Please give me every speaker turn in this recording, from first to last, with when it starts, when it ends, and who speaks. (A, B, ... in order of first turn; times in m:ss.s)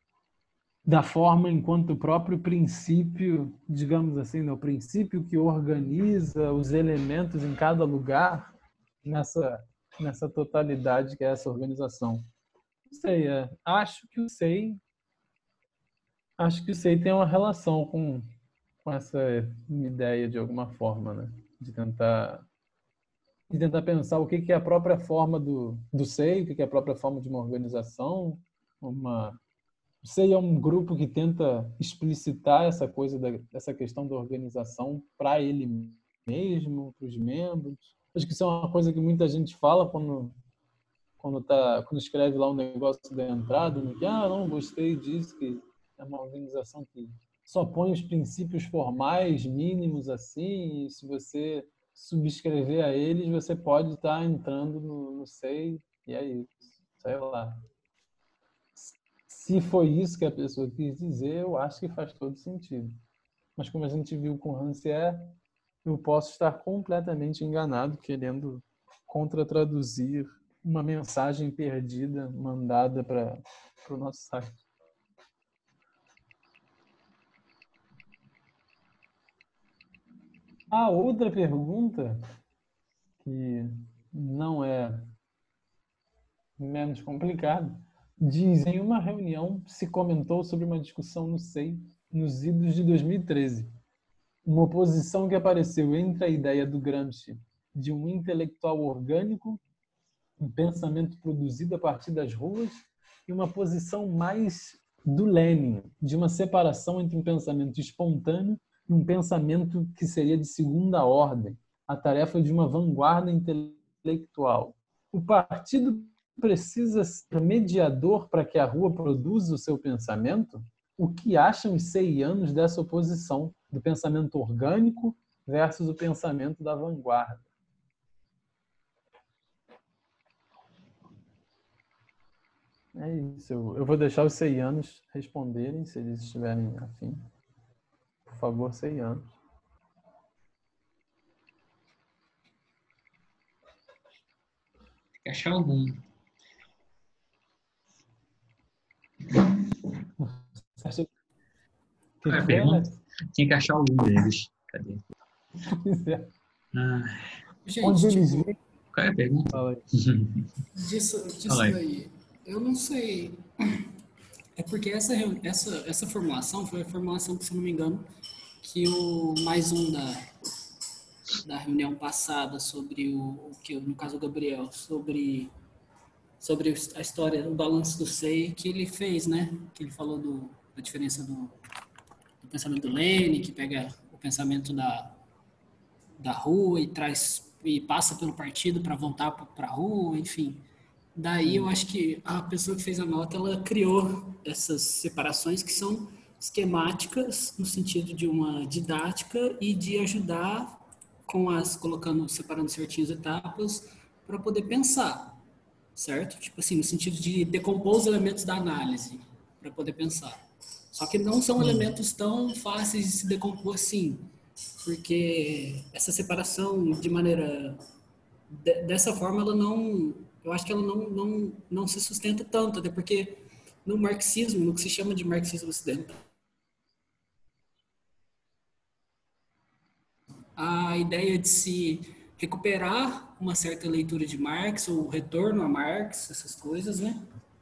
0:00.9-0:08.5 A
0:09.0-0:12.3 A
0:12.9-0:14.8 A
0:16.4-0:18.3 A
0:18.8-0:22.5 A
0:23.5-0:29.4 A
0:30.0-0:40.4 A
0:41.2-0:57.6 A
0:58.8-1:03.0 A
1:03.6-1:14.6 A
1:20.7-1:22.2 A
1:23.2-1:25.1 A
1:26.6-1:33.7 A
1:34.4-1:39.6 A
1:40.4-2:07.5 A
2:12.9-2:17.3 A
2:18.3-2:19.3 A
2:25.2-2:26.0 B
2:30.2-2:31.1 A
2:32.2-2:33.0 A
2:32.2-2:35.0 B
2:35.6-2:36.3 A
2:36.7-2:37.4 B
2:37.6-2:38.5 C
2:37.8-2:38.6 A
2:38.9-2:40.5 B
2:39.5-2:39.8 A
2:40.8-2:43.9 C
2:41.5-2:41.8 B
2:44.6-2:48.1 C
2:48.6-2:50.3 C
2:51.4-2:55.5 C
2:56.4-3:01.6 C
3:02.4-3:05.2 C
3:06.2-3:10.6 C
3:11.2-3:25.4 C
3:11.4-3:11.7 A
3:26.0-3:30.4 C
3:30.9-3:37.8 C
3:31.6-3:31.9 A
3:38.5-3:46.2 C
3:50.6-3:57.2 C